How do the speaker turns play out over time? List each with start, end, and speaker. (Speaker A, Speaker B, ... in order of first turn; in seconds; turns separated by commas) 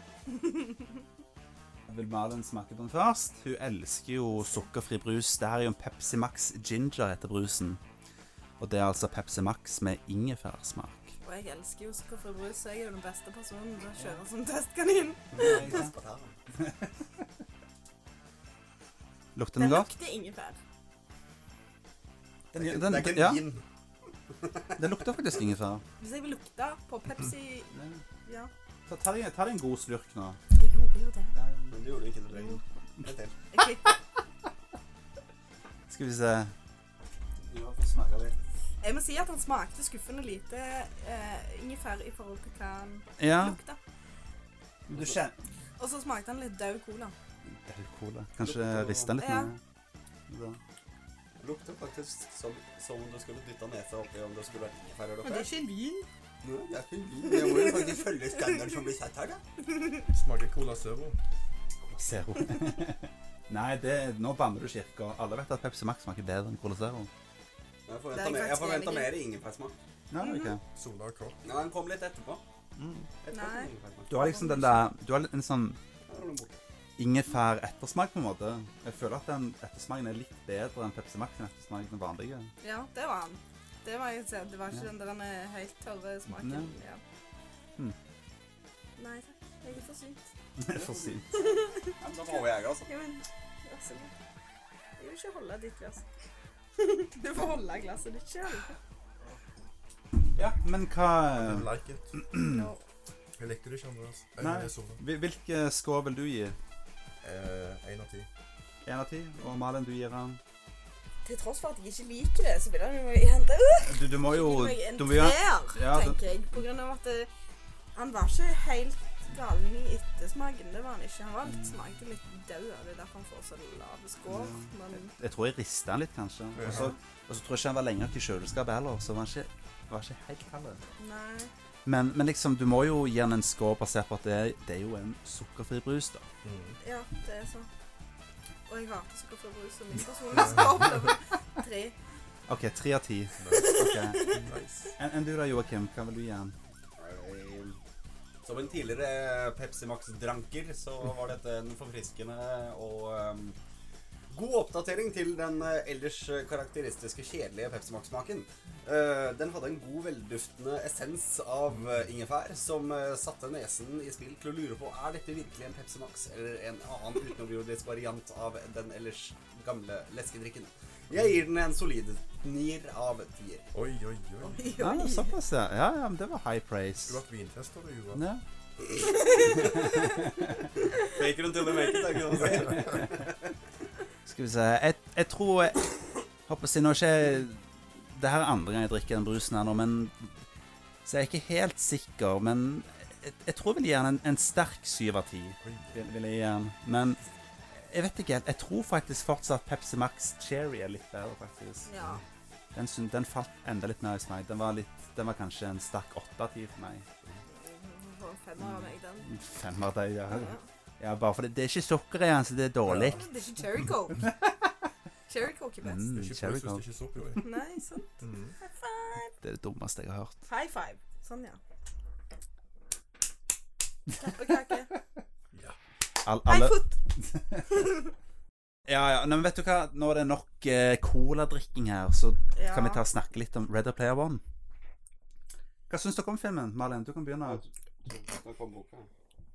Speaker A: 1.9-7.8, Speaker B: 4.4-4.7, Speaker A: 8.6-11.1, Speaker B: 11.2-15.8, Speaker A: 13.9-14.2, Speaker C: 15.3-16.4, Speaker A: 15.3-15.9, Speaker A: 16.5-17.2, Speaker A: 19.3-19.9, Speaker B: 19.6-20.6, Speaker A: 22.5-23.4, Speaker C: 22.5-23.6, Speaker C: 24.3-24.8, Speaker A: 24.8-25.8, Speaker B: 26.0-27.7, Speaker A: 27.7-28.0, Speaker B: 28.2-28.5, Speaker A: 28.9-30.4, Speaker B: 30.5-31.3, Speaker A: 31.3-31.9, Speaker C: 31.7-33.3, Speaker B: 33.5-33.9, Speaker A: 35.9-36.5, Speaker C: 37.5-38.3, Speaker B: 38.8-43.8, Speaker A: 43.2-43.6, Speaker A: 44.9-45.4, Speaker C: 44.9-45.2, Speaker B: 45.8-47.1, Speaker A: 47.5-49.6, Speaker C: 48.4-49.1, Speaker B: 49.2-49.5, Speaker A: 50.3-50.6, Speaker C: 51.4-55.5, Speaker B: 55.2-56.1, Speaker C: 56.4-59.4, Speaker B: 57.2-58.1, Speaker B: 59.7-60.0, Speaker D: 60.1-61.2, Speaker A: 61.8-67.1, Speaker C: 67.9-69.8, Speaker B: 68.1-69.1, Speaker A: 70.1-70.6, Speaker B: 70.2-70.5, Speaker D: 70.7-71.4, Speaker C: 71.4-72.4, Speaker A: 72.8-73.1, Speaker C: 73.2-74.1, Speaker B: 73.3-74.9, Speaker A: 74.1-75.8, Speaker C: 76.0-76.6, Speaker A: 77.0-82.5, Speaker B: 82.6-87.0, Speaker A: 86.3-86.7, Speaker B: 89.0-90.3, Speaker A: 90.6-91.3, Speaker C: 90.7-92.9, Speaker B: 91.3-94.1, Speaker B: 95.0-96.0, Speaker B: 96.8-98.8, Speaker A: 100.3-102.7, Speaker D: 101.3-102.2, Speaker B: 102.4-102.8, Speaker D: 103.4-105.0, Speaker A: 104.4-106.6, Speaker D: 107.2-108.3, Speaker A: 108.8-110.4, Speaker B: 111.2-117.3, Speaker A: 113.8-116.2, Speaker B: 117.9-125.1, Speaker A: 121.5-121.8, Speaker A: 124.3-130.8, Speaker D: 126.5-126.9, Speaker B: 126.7-126.9, Speaker B: 131.0-131.5, Speaker A: 131.8-136.2, Speaker D: 136.4-136.8, Speaker B: 136.8-137.7, Speaker B: 138.7-141.9, Speaker D: 140.3-141.1, Speaker A: 142.5-144.4, Speaker D: 143.4-143.8, Speaker B: 143.5-144.4, Speaker D: 144.4-144.9, Speaker A: 145.0-146.5, Speaker C: 147.0-147.8, Speaker C: 148.4-153.6, Speaker C: 154.3-173.7, Speaker D: 173.7-174.6, Speaker B: 174.5-175.3, Speaker A: 174.8-177.2, Speaker D: 177.0-178.2, Speaker A: 178.1-178.4, Speaker B: 179.0-180.3, Speaker A: 179.5-180.7, Speaker B: 180.9-182.2, Speaker C: 181.0-183.4, Speaker A: 182.5-183.2, Speaker A: 184.2-185.9, Speaker A: 186.5-190.4, Speaker A: 191.0-197.2, Speaker D: 195.6-196.0, Speaker A: 197.7-201.9, Speaker B: 201.9-202.2, Speaker A: 202.7-207.1, Speaker B: 207.5-209.3, Speaker A: 208.6-213.3, Speaker B: 210.3-210.6, Speaker D: 212.8-213.2, Speaker B: 213.1-214.2, Speaker A: 214.2-214.7, Speaker B: 215.3-216.1, Speaker A: 215.8-216.8, Speaker D: 216.1-217.4, Speaker B: 217.4-219.3, Speaker D: 218.2-218.6, Speaker A: 219.4-220.4, Speaker B: 220.4-221.6, Speaker B: 224.2-224.9, Speaker D: 225.5-225.8, Speaker A: 226.2-227.7, Speaker B: 226.5-227.0, Speaker B: 227.7-228.0, Speaker A: 228.9-234.4, Speaker B: 232.5-233.0, Speaker A: 235.9-237.6, Speaker C: 237.4-239.1